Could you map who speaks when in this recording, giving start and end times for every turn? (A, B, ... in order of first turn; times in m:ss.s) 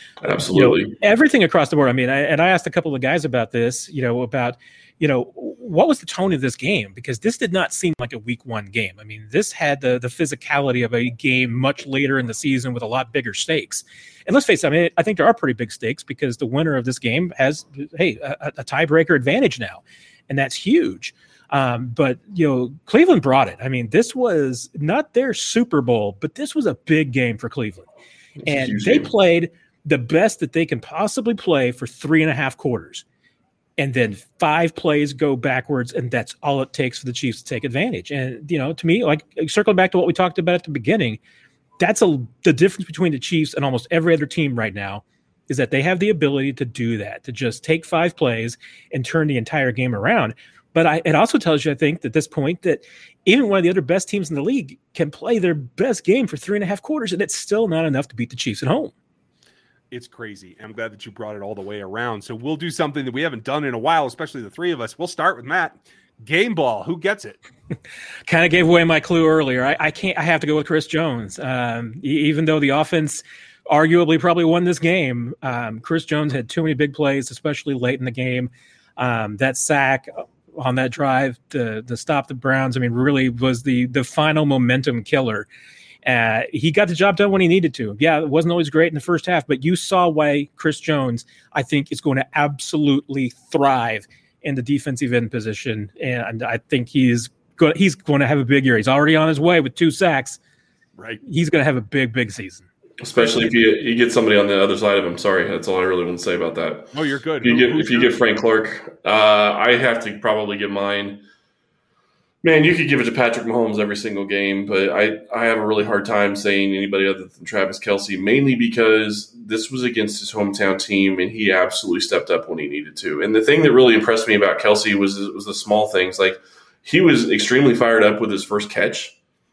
0:00.2-0:00.9 A
0:00.5-0:27.9 B
0:28.4-0:29.1 A
0:28.4-0:33.0 B
0:33.8-0:41.2 B
0:41.8-0:58.9 B
0:59.9-1:07.4 C
1:08.3-1:25.5 B
1:26.0-1:40.4 B
1:41.0-1:41.2 C
1:41.2-1:42.7 B
1:43.0-1:46.9 A
1:43.1-1:43.6 C
1:46.9-1:48.2 C
1:47.4-1:51.2 A
1:52.4-2:09.1 A